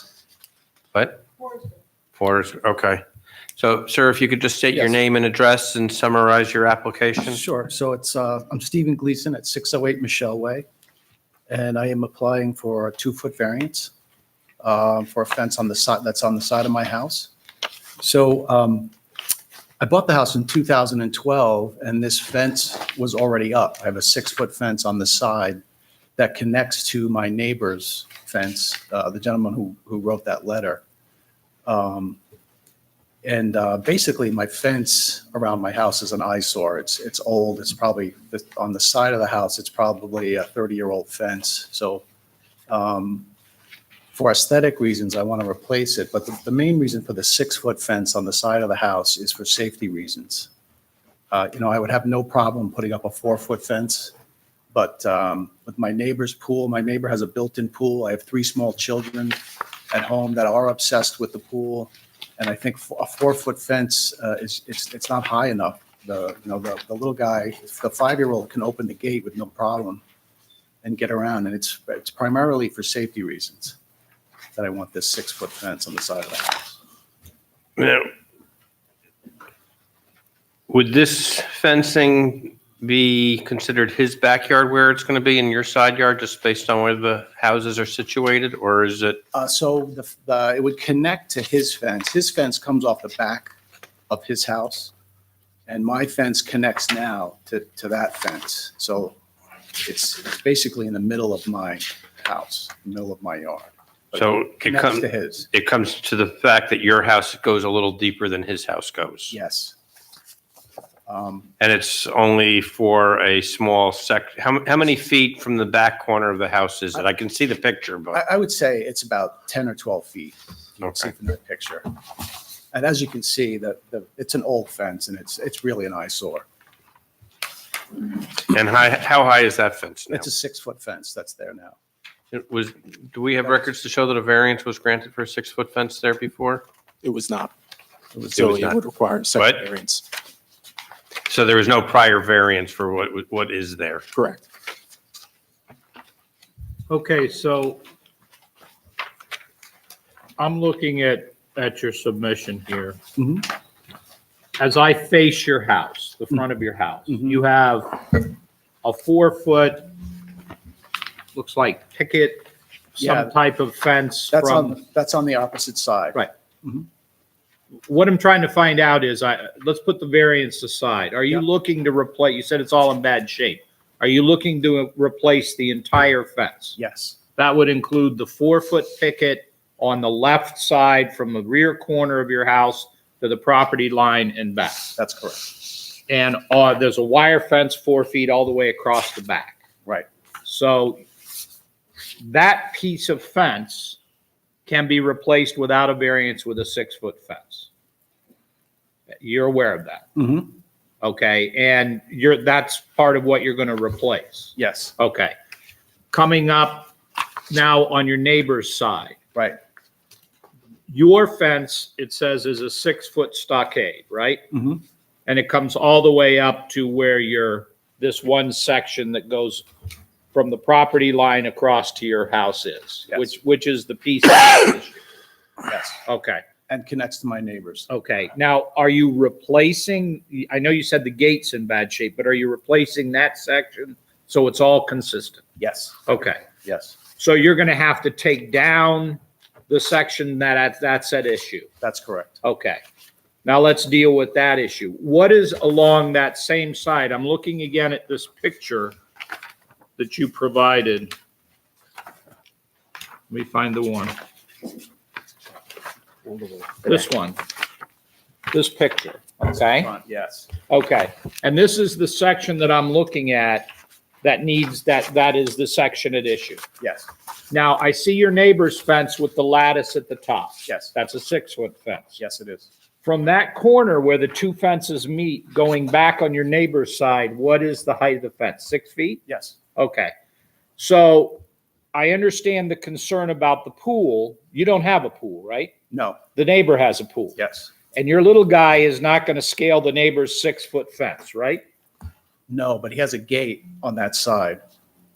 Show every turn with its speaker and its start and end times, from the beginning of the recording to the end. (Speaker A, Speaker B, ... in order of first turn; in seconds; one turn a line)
Speaker A: 0.9-1.2
Speaker A: 2.2-3.0
Speaker A: 3.6-7.4
Speaker B: 7.2-10.6
Speaker B: 11.5-13.9
Speaker B: 14.6-17.3
Speaker B: 18.0-18.9
Speaker B: 19.8-25.6
Speaker B: 26.2-30.8
Speaker B: 31.6-32.2
Speaker B: 33.2-42.0
Speaker B: 42.7-43.3
Speaker B: 44.1-50.5
Speaker B: 51.3-54.1
Speaker B: 54.7-59.4
Speaker B: 59.9-70.0
Speaker B: 70.8-73.8
Speaker B: 74.5-76.8
Speaker A: 77.8-78.1
Speaker A: 80.7-89.2
Speaker B: 89.3-93.5
Speaker B: 94.1-94.9
Speaker B: 95.7-99.2
Speaker B: 99.8-105.5
Speaker A: 104.1-109.3
Speaker B: 109.3-109.8
Speaker B: 111.1-111.5
Speaker A: 111.6-118.2
Speaker B: 118.1-121.9
Speaker A: 120.8-121.1
Speaker B: 122.7-126.5
Speaker A: 128.5-130.3
Speaker B: 130.1-131.8
Speaker A: 132.3-136.7
Speaker C: 137.0-137.5
Speaker A: 138.2-138.8
Speaker C: 138.3-140.0
Speaker A: 139.3-139.7
Speaker A: 141.3-144.0
Speaker C: 144.2-144.4
Speaker D: 146.9-147.8
Speaker D: 150.4-153.0
Speaker B: 153.2-153.5
Speaker D: 154.6-158.3
Speaker B: 157.1-157.4
Speaker D: 158.8-159.9
Speaker D: 161.3-164.8
Speaker B: 163.0-163.3
Speaker B: 164.3-166.9
Speaker D: 167.9-176.8
Speaker B: 176.8-177.2
Speaker D: 177.3-184.9
Speaker B: 185.0-185.6
Speaker D: 186.1-189.6
Speaker D: 190.4-191.0
Speaker D: 192.2-194.0
Speaker D: 194.7-197.7
Speaker D: 199.2-200.1
Speaker B: 200.2-200.5
Speaker D: 201.0-205.3
Speaker B: 204.6-204.9
Speaker D: 206.1-206.9
Speaker D: 207.5-209.2
Speaker D: 210.9-214.4
Speaker B: 214.5-214.8
Speaker D: 215.2-219.7
Speaker D: 220.3-225.0
Speaker B: 225.7-226.0
Speaker D: 226.1-226.4
Speaker B: 226.7-227.9
Speaker D: 227.9-235.4
Speaker B: 235.6-236.0
Speaker D: 236.1-236.4
Speaker B: 236.6-236.9
Speaker D: 237.2-241.7
Speaker B: 241.8-242.4
Speaker D: 242.4-242.8
Speaker D: 243.4-249.0
Speaker D: 250.0-251.1
Speaker D: 253.3-254.1
Speaker B: 256.3-257.0
Speaker D: 256.8-257.4
Speaker D: 258.5-259.9
Speaker B: 259.8-260.5
Speaker D: 260.7-263.7
Speaker D: 264.2-266.6
Speaker B: 266.8-267.1
Speaker D: 267.5-272.2
Speaker B: 270.7-270.9
Speaker B: 272.2-272.7
Speaker D: 273.0-279.2
Speaker B: 279.3-279.6
Speaker D: 279.8-280.1
Speaker D: 280.8-281.4
Speaker D: 281.9-285.7
Speaker B: 285.9-286.2
Speaker D: 286.4-287.4
Speaker B: 287.4-287.7
Speaker D: 287.9-291.6
Speaker B: 292.5-294.6